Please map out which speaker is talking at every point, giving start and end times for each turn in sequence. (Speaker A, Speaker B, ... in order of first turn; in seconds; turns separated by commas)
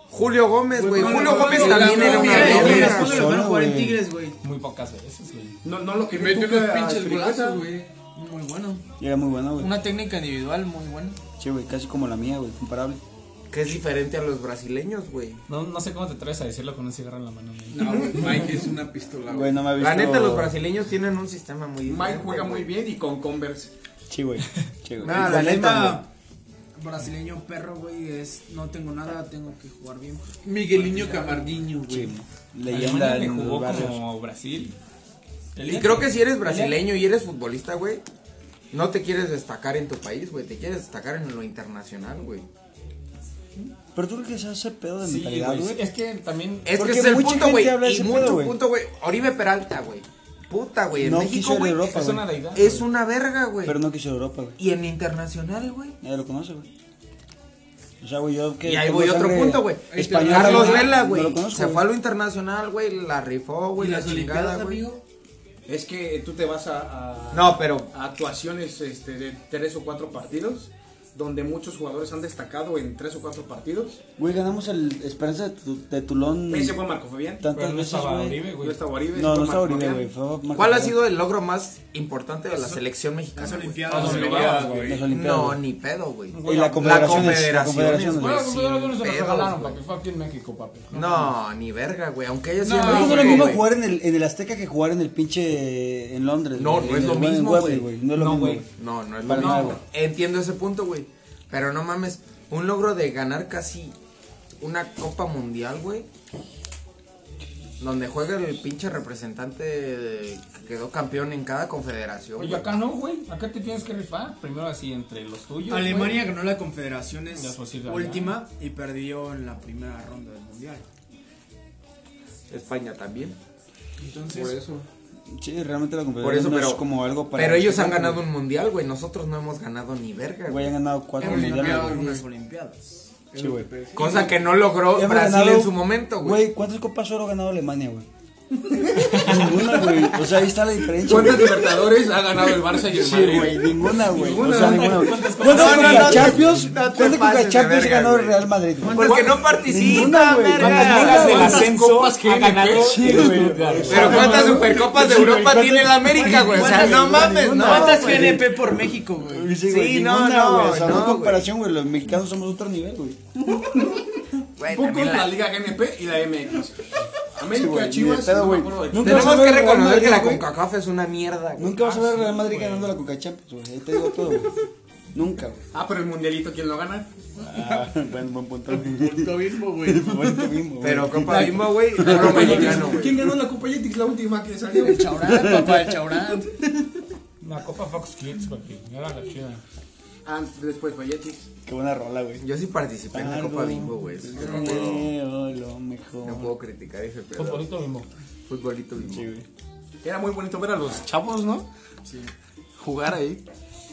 Speaker A: 0.1-3.3, Speaker B: 0.8-4.4, Speaker C: 0.8-3.1, Speaker D: 1.0-1.8, Speaker E: 2.2-4.0, Speaker F: 4.4-5.5, Speaker D: 5.6-7.7, Speaker C: 6.1-7.9, Speaker B: 8.0-8.8, Speaker E: 9.0-9.8, Speaker B: 9.6-11.2, Speaker E: 11.4-13.0, Speaker A: 13.5-15.4, Speaker F: 15.5-18.5, Speaker C: 17.7-19.7, Speaker E: 19.3-20.6, Speaker A: 19.8-22.7, Speaker D: 21.8-23.7, Speaker E: 24.1-26.0, Speaker B: 25.0-26.1, Speaker B: 26.8-31.6, Speaker C: 30.4-32.1, Speaker E: 31.9-34.0, Speaker F: 32.7-34.8, Speaker F: 35.5-36.8, Speaker A: 35.6-38.0, Speaker A: 38.7-42.5, Speaker E: 43.9-45.8, Speaker F: 45.0-46.7, Speaker A: 46.6-51.8, Speaker E: 46.7-48.6, Speaker E: 50.9-52.3, Speaker F: 51.8-52.8, Speaker A: 52.5-53.8, Speaker E: 53.6-54.6, Speaker A: 54.6-56.0, Speaker E: 56.0-56.7, Speaker E: 58.0-61.9, Speaker A: 58.6-64.8, Speaker C: 59.9-61.0, Speaker C: 63.8-65.0, Speaker D: 65.7-74.0, Speaker A: 67.3-67.9, Speaker E: 74.2-76.8, Speaker D: 76.5-77.5, Speaker E: 77.4-78.4, Speaker F: 77.5-78.8, Speaker D: 78.6-80.0, Speaker E: 79.1-81.0, Speaker A: 80.5-84.3, Speaker B: 83.4-84.7, Speaker C: 83.8-85.1, Speaker F: 83.9-85.0, Speaker E: 84.6-85.6, Speaker A: 85.1-89.8, Speaker F: 86.3-91.3, Speaker E: 86.4-88.5, Speaker A: 90.9-93.6, Speaker C: 92.6-93.6, Speaker E: 92.8-98.7, Speaker A: 96.6-97.9, Speaker F: 98.1-98.6, Speaker A: 98.8-104.0, Speaker E: 99.2-99.8, Speaker F: 99.3-99.8, Speaker A: 104.6-106.1, Speaker A: 107.8-112.7, Speaker F: 112.4-116.2, Speaker B: 115.7-120.8, Speaker F: 117.3-118.4, Speaker A: 122.5-123.4, Speaker B: 124.0-124.6, Speaker C: 124.3-124.8, Speaker E: 125.3-128.3, Speaker A: 126.2-130.7, Speaker E: 130.5-132.0, Speaker B: 131.2-133.2, Speaker C: 131.2-132.2, Speaker C: 133.3-134.3, Speaker E: 133.3-133.7, Speaker A: 133.9-136.4, Speaker E: 134.8-138.1, Speaker D: 138.8-139.1, Speaker F: 139.0-139.4, Speaker E: 139.1-141.8, Speaker C: 139.1-140.2, Speaker C: 141.0-146.2, Speaker D: 141.0-146.4, Speaker E: 142.9-151.7, Speaker A: 145.4-151.6, Speaker F: 145.5-146.1, Speaker B: 149.1-149.5, Speaker F: 150.6-154.2, Speaker D: 151.0-153.0, Speaker C: 151.0-157.0, Speaker E: 152.7-154.8, Speaker A: 153.9-158.4, Speaker B: 156.2-159.5, Speaker E: 156.3-158.7, Speaker E: 159.2-164.0, Speaker A: 159.6-161.5, Speaker D: 163.5-164.0, Speaker A: 164.6-165.5, Speaker D: 164.7-169.6, Speaker E: 167.5-170.4, Speaker A: 169.0-171.8, Speaker E: 171.6-175.6, Speaker D: 175.7-177.1, Speaker E: 177.4-183.4, Speaker C: 177.4-177.9, Speaker C: 178.7-180.5, Speaker A: 180.8-183.2, Speaker D: 181.2-185.2, Speaker C: 182.1-182.9, Speaker B: 184.7-186.6, Speaker E: 185.1-185.9, Speaker F: 187.4-189.6, Speaker D: 190.2-191.5, Speaker E: 191.7-192.4, Speaker A: 192.4-195.1, Speaker E: 193.1-196.5, Speaker A: 196.2-197.7, Speaker F: 197.3-198.1, Speaker A: 198.5-199.3, Speaker E: 199.0-199.4, Speaker D: 200.0-201.7, Speaker C: 202.1-202.3, Speaker D: 202.8-203.4